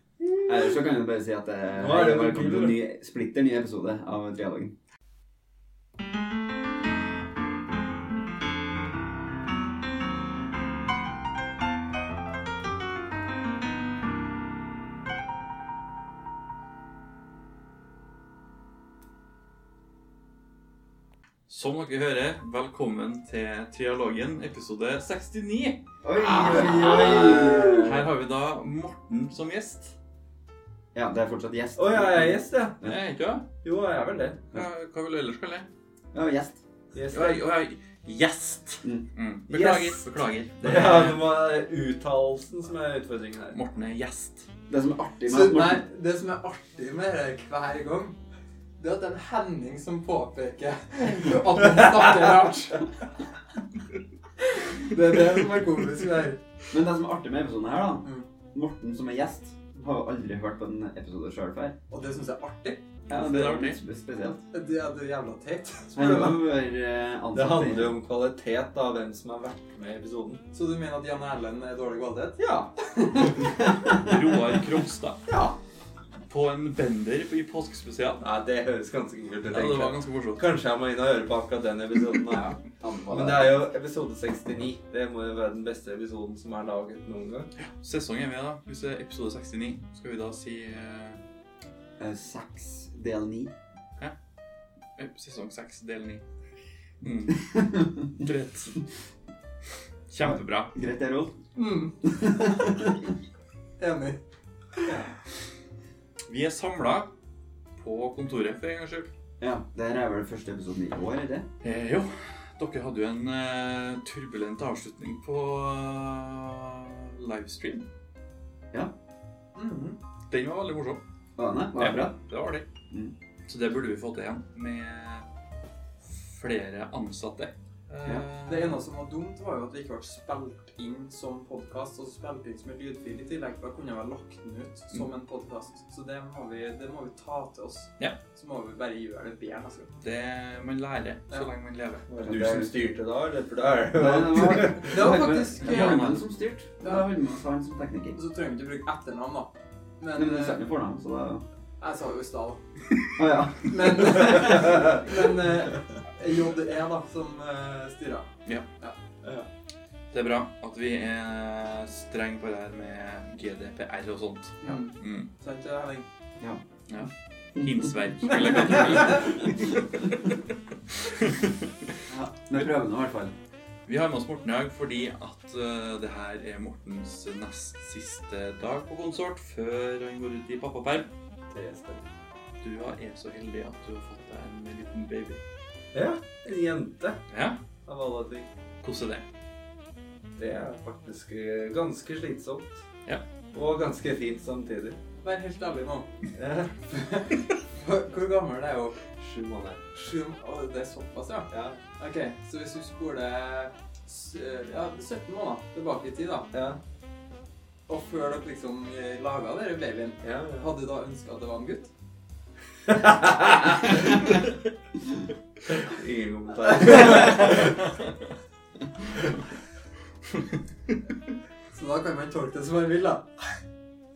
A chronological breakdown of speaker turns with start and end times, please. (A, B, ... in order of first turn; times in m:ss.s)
0:00.2-0:00.5 A
0:00.5-0:04.7 B
0:01.8-0:02.8 A
0:21.5-0:29.9 C
0:26.0-0:28.1 B
0:26.3-0:27.8 A
0:30.9-0:33.0 B
0:31.8-0:32.8 A
0:32.8-0:33.4 C
0:33.6-0:34.4 A
0:34.5-0:35.7 C
0:36.1-0:36.6 B
0:36.9-0:37.4 A
0:37.1-0:41.2 C
0:39.5-0:40.0 A
0:40.6-0:43.6 A
0:43.5-0:44.5 C
0:44.7-0:45.8 B
0:45.3-0:48.2 D
0:48.8-0:52.9 D
0:54.6-0:56.4 D
0:56.7-1:01.8 B
1:01.9-1:02.8 D
1:03.1-1:04.4 B
1:03.1-1:03.8 C
1:04.4-1:06.4 D
1:06.0-1:08.0 B
1:07.4-1:10.4 A
1:10.5-1:12.4 D
1:12.4-1:13.4 A
1:13.8-1:15.2 C
1:15.3-1:15.6 A
1:16.3-1:18.2 C
1:18.2-1:22.6 A
1:19.5-1:20.4 C
1:22.5-1:23.6 B
1:23.1-1:27.5 A
1:27.7-1:31.2 C
1:32.0-1:33.5 B
1:35.0-1:36.2 C
1:37.0-1:38.8 C
1:37.5-1:37.8 B
1:40.1-1:40.7 C
1:40.2-1:41.3 B
1:41.6-1:42.0 D
1:42.0-1:43.1 B
1:43.8-1:44.2 D
1:46.3-1:47.1 C
1:47.8-1:49.1 C
1:49.4-1:51.5 B
1:51.6-1:57.8 C
1:59.6-2:00.0 D
2:00.3-2:01.0 C
2:01.4-2:02.2 B
2:01.8-2:02.6 C
2:03.5-2:05.2 C
2:06.0-2:08.8 C
2:08.5-2:19.9 D
2:20.0-2:22.1 C
2:22.1-2:25.2 A
2:22.2-2:22.7 B
2:23.9-2:28.2 B
2:24.8-2:26.2 D
2:25.6-2:26.2 C
2:28.2-2:30.6 D
2:30.2-2:31.4 B
2:31.8-2:32.6 D
2:33.2-2:34.7 B
2:33.7-2:38.3 D
2:39.2-2:39.5 A
2:40.1-2:45.3 C
2:44.6-2:46.1 D
2:46.9-2:50.4 C
2:48.8-2:49.2 D
2:50.9-2:51.7 C
2:52.5-2:53.3 B
2:53.9-3:01.1 C
3:01.5-3:02.0 A
3:02.6-3:05.4 C
3:05.9-3:07.2 A
3:07.3-3:07.6 C
3:07.9-3:08.5 A
3:08.8-3:09.2 C
3:10.4-3:12.8 A
3:13.5-3:15.0 A
3:15.2-3:16.1 D
3:16.4-3:17.2 A
3:17.7-3:19.0 D
3:19.2-3:19.8 A
3:19.9-3:26.5 D
3:21.5-3:21.8 A
3:26.5-3:26.8 A
3:27.9-3:31.9 D
3:30.2-3:30.7 A
3:32.9-3:34.1 A
3:35.7-3:37.8 A
3:41.7-3:43.3 D